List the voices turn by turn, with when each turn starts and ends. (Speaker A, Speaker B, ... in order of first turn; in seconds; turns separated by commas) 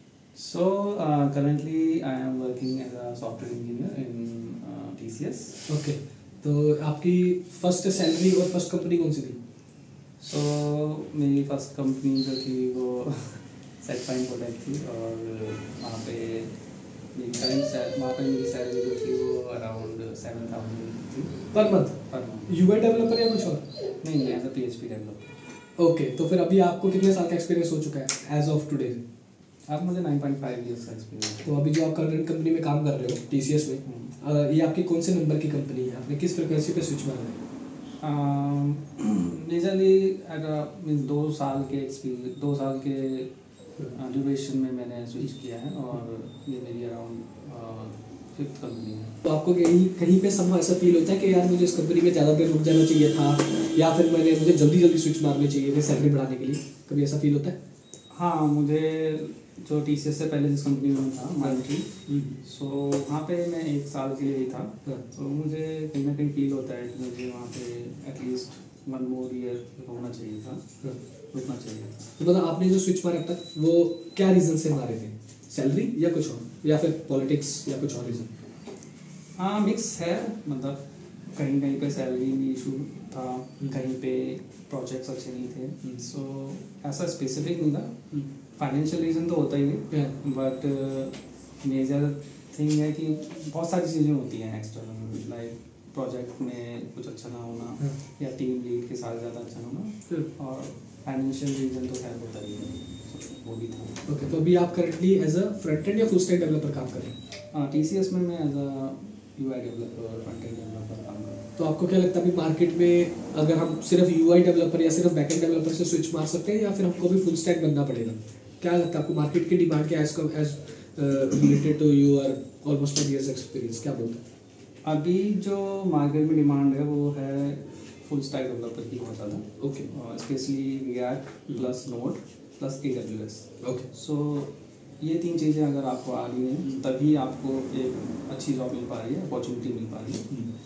Speaker A: 0.3-5.6, Speaker B: 5.7-9.4, Speaker A: 10.2-16.5, Speaker A: 17.1-21.5, Speaker B: 21.5-23.6, Speaker A: 22.0-22.5, Speaker A: 24.0-25.4, Speaker B: 25.8-29.0, Speaker A: 29.7-31.4, Speaker B: 31.4-37.4, Speaker A: 33.8-34.1, Speaker A: 38.0-43.3, Speaker A: 43.9-49.1, Speaker B: 49.2-57.5, Speaker A: 58.1-70.6, Speaker B: 61.4-62.4, Speaker A: 71.3-72.1, Speaker B: 72.2-78.3, Speaker A: 79.4-80.8, Speaker A: 81.3-87.9, Speaker A: 88.6-104.0, Speaker B: 104.0-107.1, Speaker A: 107.5-111.4, Speaker B: 111.6-124.2, Speaker A: 124.8-140.3, Speaker B: 129.6-129.9, Speaker B: 133.6-133.9